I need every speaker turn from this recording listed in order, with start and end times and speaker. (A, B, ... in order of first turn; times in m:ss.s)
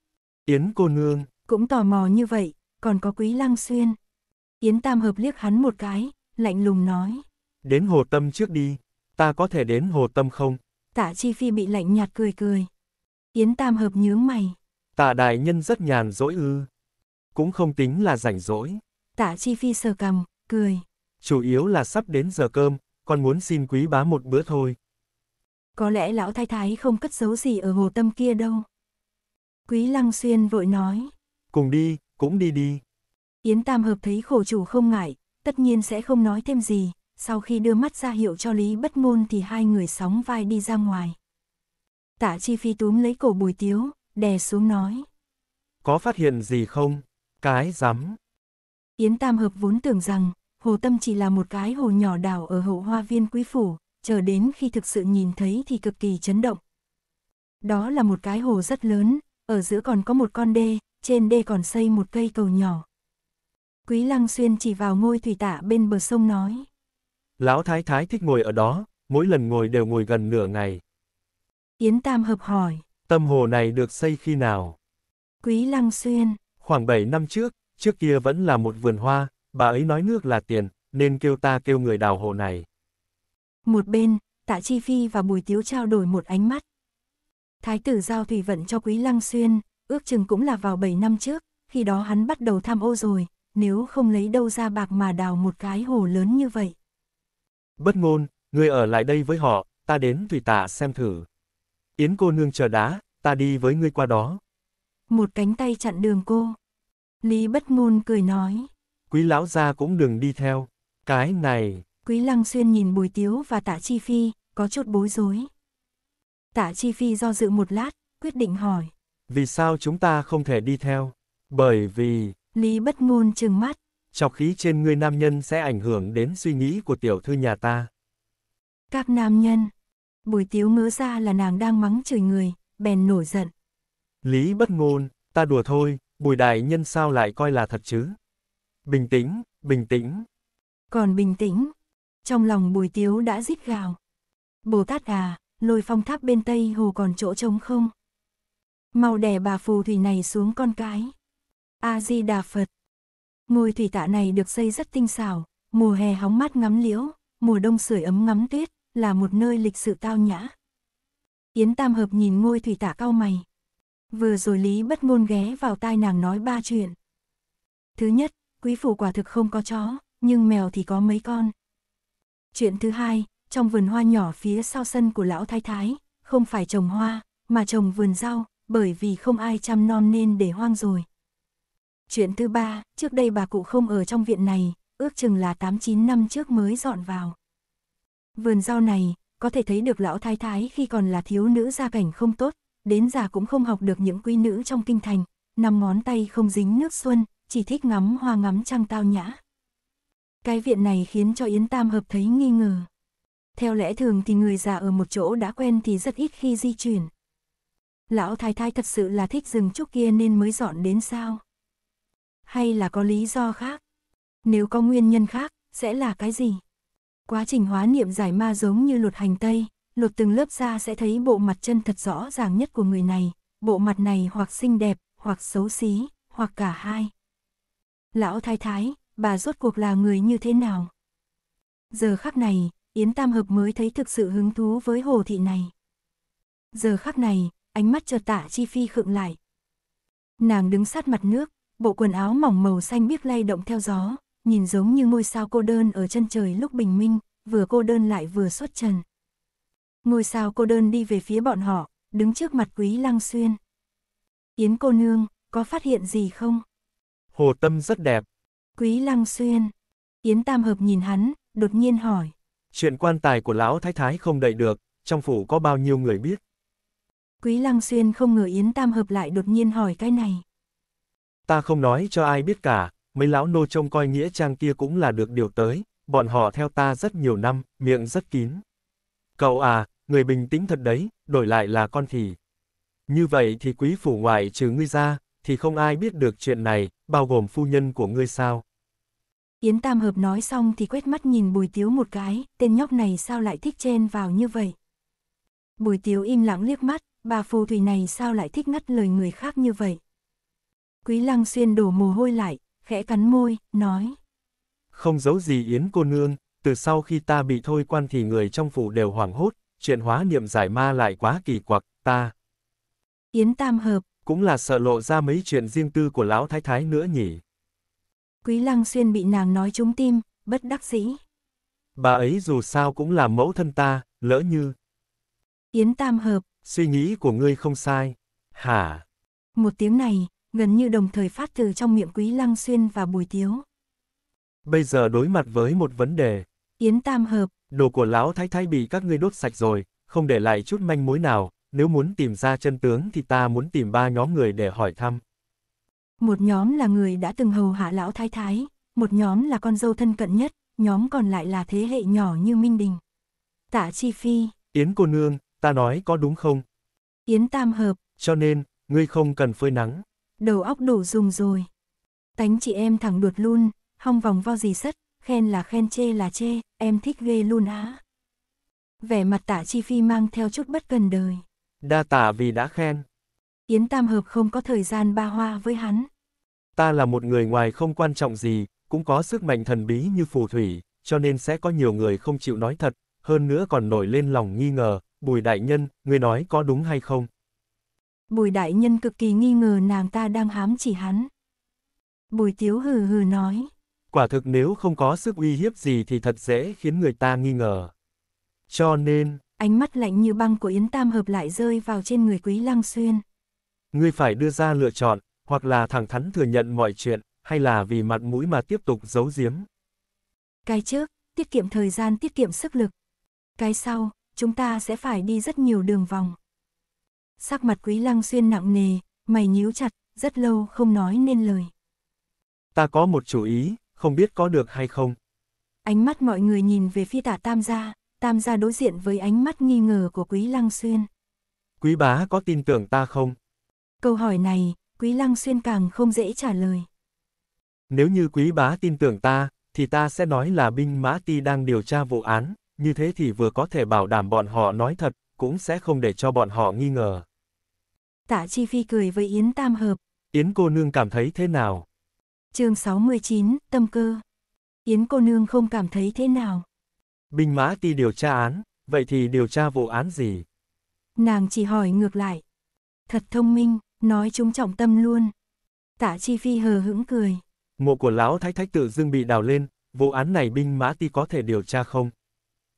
0:00.5-0:01.3 A
0:01.5-0:04.0 B
0:04.6-0:07.3 B
0:07.6-0:10.6 A
0:10.9-0:12.7 B
0:13.3-0:14.6 B
0:15.0-0:16.7 A
0:17.4-0:18.8 A
0:19.2-0:20.8 B
0:21.2-0:24.8 A
0:25.8-0:28.7 B
0:29.7-0:31.1 B
0:31.5-0:32.8 A
0:33.4-0:41.2 B
0:42.2-0:45.1 B
0:45.8-0:48.2 A
0:49.0-0:56.6 B
0:57.6-1:02.9 B
1:03.9-1:06.7 B
1:07.4-1:10.8 A
1:11.8-1:12.8 B
1:13.1-1:14.8 A
1:15.4-1:16.4 B
1:16.6-1:22.7 A
1:23.7-1:26.6 B
1:27.6-1:36.8 B
1:37.8-1:41.3 A
1:42.0-1:44.4 A
1:45.1-1:46.6 B
1:47.2-1:48.7 B
1:49.1-1:51.8 A
1:52.0-1:55.5 B
1:56.5-1:58.9 B
1:59.3-2:02.4 A
2:02.5-2:03.8 B
2:04.1-2:07.9 A
2:08.9-2:09.7 B
2:10.2-2:13.5 B
2:14.2-2:18.2 A
2:18.9-2:20.3 A
2:20.9-2:21.7 B
2:22.2-2:24.0 B
2:24.6-2:27.9 B
2:28.9-2:31.1 B
2:31.8-2:32.7 B
2:33.5-2:40.5 B
2:41.6-2:43.4 B
2:44.1-2:47.0 B
2:48.0-2:51.5 B
2:52.5-3:01.1 B
3:02.1-3:07.4 B
3:08.4-3:19.4 B
3:20.4-3:22.9 B
3:23.6-3:27.1 B
3:28.1-3:31.4 B
3:32.5-3:33.8 B
3:34.4-3:36.6 B
3:37.3-3:47.1 B
3:48.1-3:50.9 B
3:51.9-3:55.7 B
3:56.7-3:59.4 B
4:00.4-4:09.0 B
4:10.0-4:13.6 B
4:14.6-4:16.6 B
4:17.3-4:18.2 A
4:18.8-4:22.3 B
4:22.7-4:26.4 A
4:27.4-4:30.4 B
4:31.5-4:38.6 A
4:39.4-4:42.4 A
4:43.1-4:48.6 A
4:49.6-4:54.8 B
4:55.8-5:00.0 B
5:01.0-5:04.2 B
5:04.9-5:12.3 A
5:13.3-5:14.0 B
5:14.3-5:17.4 A
5:18.4-5:21.2 B
5:22.0-5:24.8 A
5:25.7-5:26.5 B
5:26.6-5:29.0 A
5:29.6-5:33.6 B
5:34.6-5:36.4 A
5:36.8-5:37.5 B
5:37.7-5:45.2 A
5:46.2-5:53.0 B
5:53.7-5:54.5 B
5:54.7-5:56.6 A
5:57.3-5:58.0 B
5:58.2-6:00.0 A
6:00.4-6:01.7 B
6:02.4-6:08.0 B
6:09.0-6:11.4 B
6:11.8-6:13.0 A
6:13.7-6:16.1 B
6:16.8-6:27.3 A
6:28.3-6:31.3 B
6:32.3-6:33.7 B
6:34.1-6:37.9 A
6:38.7-6:39.4 A
6:39.6-6:43.2 B
6:43.9-6:49.7 A
6:50.7-6:52.9 B
6:53.6-6:56.4 B
6:57.4-7:01.7 B
7:02.8-7:05.2 A
7:05.8-7:11.1 B
7:11.8-7:13.4 A
7:14.0-7:16.9 B
7:17.9-7:27.2 A
7:28.3-7:30.0 B
7:30.3-7:31.9 A
7:32.5-7:34.2 B
7:34.9-7:36.6 B
7:37.3-7:40.4 A
7:41.2-7:42.4 B
7:43.1-7:45.3 B
7:46.0-7:47.4 B
7:47.8-7:52.1 A